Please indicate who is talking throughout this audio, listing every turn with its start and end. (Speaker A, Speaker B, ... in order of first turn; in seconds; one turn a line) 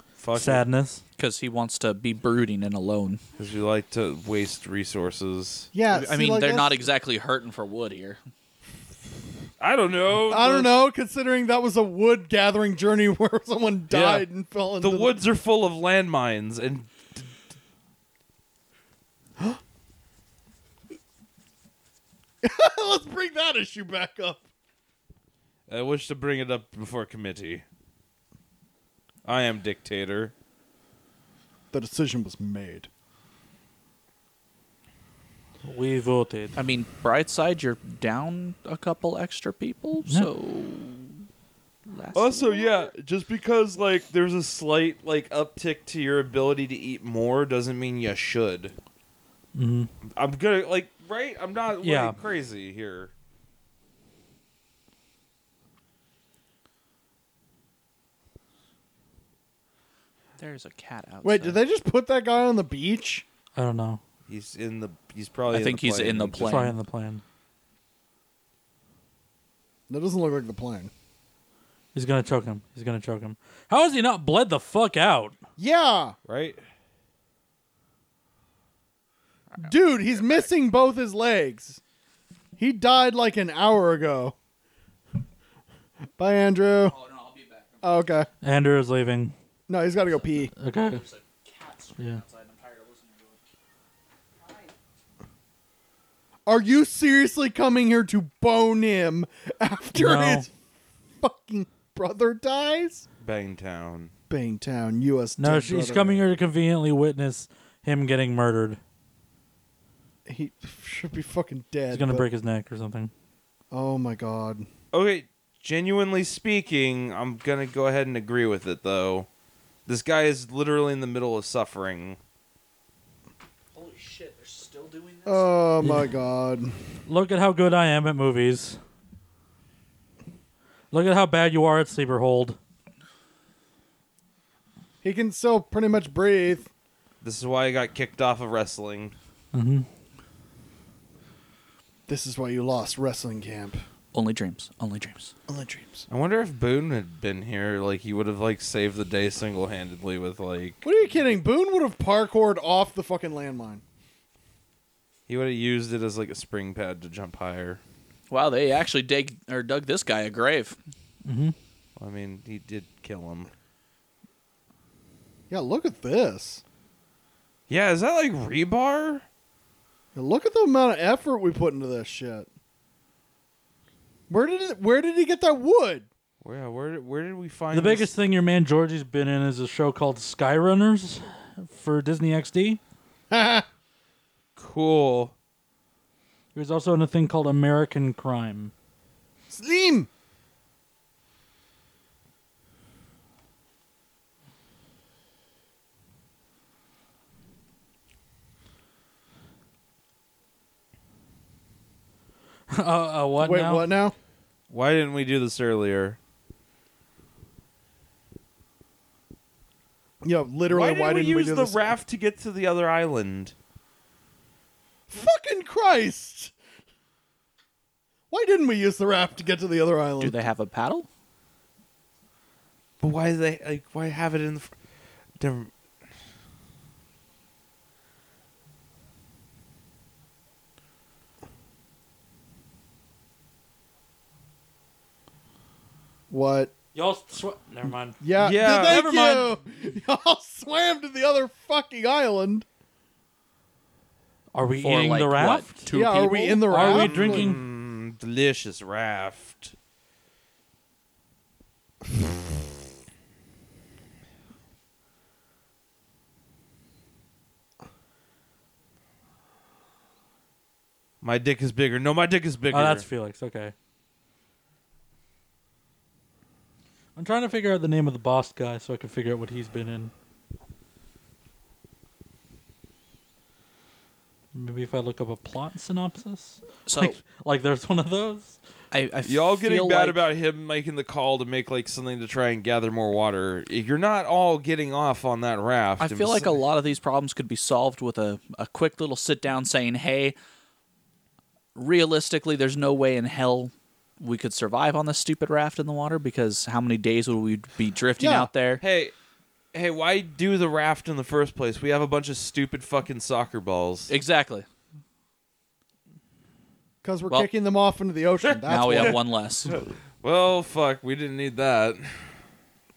Speaker A: 0.2-0.6
Speaker B: 0.3-1.0
Speaker C: 1.2-3.2
Speaker A: 3.4-5.7
Speaker D: 5.7-6.9
Speaker C: 5.9-8.2
Speaker A: 9.6-10.7
Speaker D: 10.3-15.1
Speaker A: 13.9-14.3
Speaker A: 14.8-17.4
Speaker D: 22.4-24.5
Speaker A: 25.7-27.6
Speaker A: 29.2-30.3
Speaker D: 31.7-32.9
Speaker B: 35.6-36.6
Speaker C: 36.6-41.2
Speaker C: 41.9-42.9
Speaker A: 42.1-48.7
Speaker B: 49.5-49.9
Speaker A: 50.1-53.1
Speaker B: 51.8-52.2
Speaker C: 60.4-61.6
Speaker D: 61.2-63.2
Speaker B: 63.6-64.0
Speaker A: 64.3-66.6
Speaker C: 65.5-66.8
Speaker B: 66.4-67.2
Speaker D: 69.9-70.9
Speaker B: 71.9-75.4
Speaker D: 75.6-76.2
Speaker A: 76.3-76.6
Speaker C: 79.5-80.5
Speaker D: 79.6-81.8
Speaker D: 82.6-84.3
Speaker D: 86.2-87.0
Speaker C: 86.9-87.9
Speaker D: 87.8-88.3
Speaker B: 88.4-89.3
Speaker D: 89.7-90.5
Speaker C: 90.1-93.4
Speaker B: 90.6-91.0
Speaker D: 96.5-100.5
Speaker B: 100.0-100.5
Speaker D: 101.2-103.0
Speaker A: 103.2-104.1
Speaker D: 104.3-106.2
Speaker B: 105.4-108.8
Speaker D: 110.3-112.3
Speaker B: 111.9-113.1
Speaker D: 113.7-114.7
Speaker A: 114.9-119.3
Speaker A: 119.9-122.2
Speaker C: 123.7-125.5
Speaker D: 125.3-126.8
Speaker B: 125.8-126.1
Speaker B: 127.1-128.8
Speaker B: 130.9-132.6
Speaker D: 135.0-136.7
Speaker A: 137.2-139.2
Speaker B: 139.5-139.9
Speaker D: 142.1-143.8
Speaker C: 144.1-145.3
Speaker D: 145.5-146.1
Speaker A: 146.1-150.8
Speaker D: 150.8-153.8
Speaker A: 155.3-157.8
Speaker C: 158.3-160.8
Speaker B: 161.2-161.6
Speaker A: 162.0-163.5
Speaker D: 165.5-166.6
Speaker A: 167.7-169.2
Speaker D: 170.1-172.5
Speaker D: 174.3-176.1
Speaker A: 176.4-178.1
Speaker B: 177.7-182.8
Speaker D: 183.3-183.7
Speaker A: 184.6-185.3
Speaker B: 186.6-188.7
Speaker D: 189.5-190.1
Speaker B: 202.7-203.9
Speaker D: 203.4-204.1
Speaker A: 204.7-206.2
Speaker D: 210.2-211.9
Speaker A: 210.7-213.6
Speaker D: 215.1-216.5
Speaker D: 218.3-220.4
Speaker C: 220.2-221.1
Speaker A: 223.0-224.7
Speaker A: 225.4-225.7
Speaker D: 236.3-236.7
Speaker B: 236.9-239.6
Speaker D: 238.2-242.7
Speaker A: 238.4-239.1
Speaker B: 244.5-245.9
Speaker C: 244.8-246.8
Speaker D: 245.9-247.6
Speaker B: 246.7-247.6
Speaker A: 246.8-249.7
Speaker A: 261.2-263.1
Speaker B: 262.7-263.7
Speaker B: 267.2-270.1
Speaker B: 274.5-278.6
Speaker C: 276.9-277.2
Speaker C: 278.9-280.2
Speaker A: 279.2-286.6
Speaker C: 286.0-290.4
Speaker C: 291.8-298.8
Speaker D: 298.2-298.5
Speaker A: 298.8-299.1
Speaker A: 299.7-304.1
Speaker C: 304.1-304.7
Speaker D: 307.0-309.2
Speaker A: 308.4-309.2
Speaker C: 308.6-309.8
Speaker A: 309.7-312.3